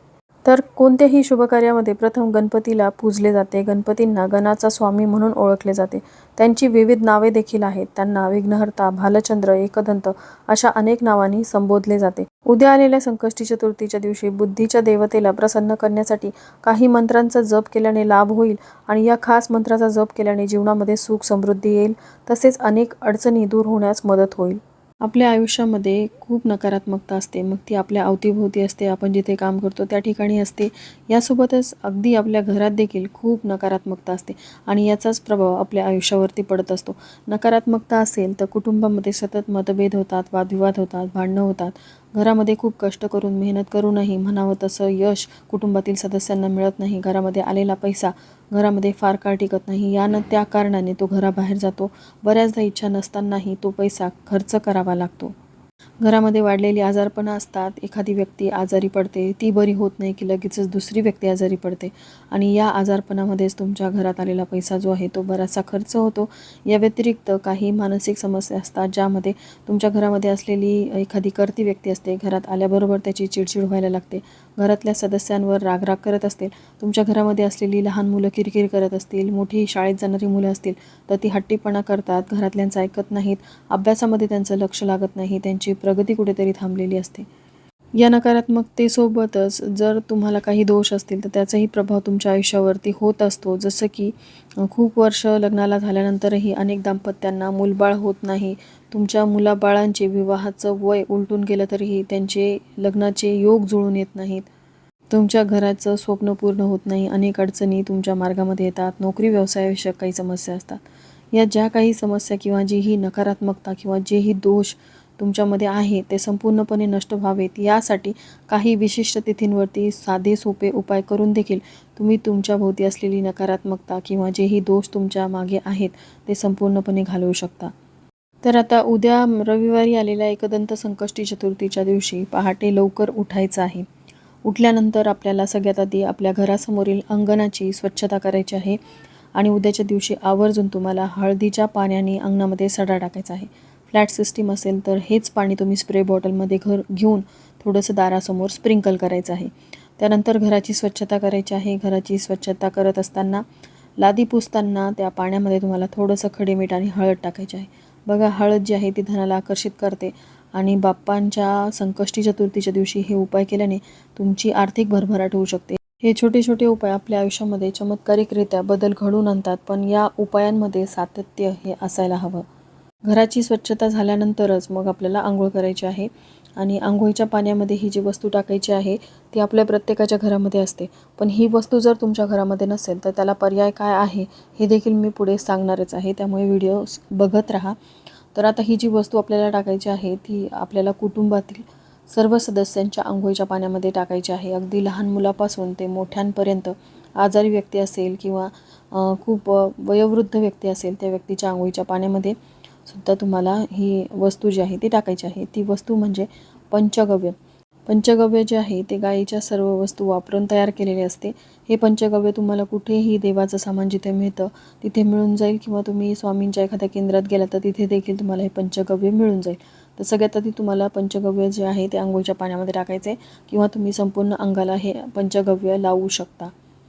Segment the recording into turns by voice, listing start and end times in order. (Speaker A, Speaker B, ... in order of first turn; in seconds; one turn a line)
Speaker A: 0.5-55.3
Speaker A: 56.0-87.2
Speaker A: 88.0-104.5
Speaker A: 105.1-110.8
Speaker A: 111.3-127.7
Speaker A: 128.4-133.9
Speaker A: 134.4-138.8
Speaker A: 139.3-153.4
Speaker A: 154.0-172.4
Speaker A: 173.1-187.8
Speaker A: 188.3-202.3
Speaker A: 202.8-207.3
Speaker A: 207.9-226.5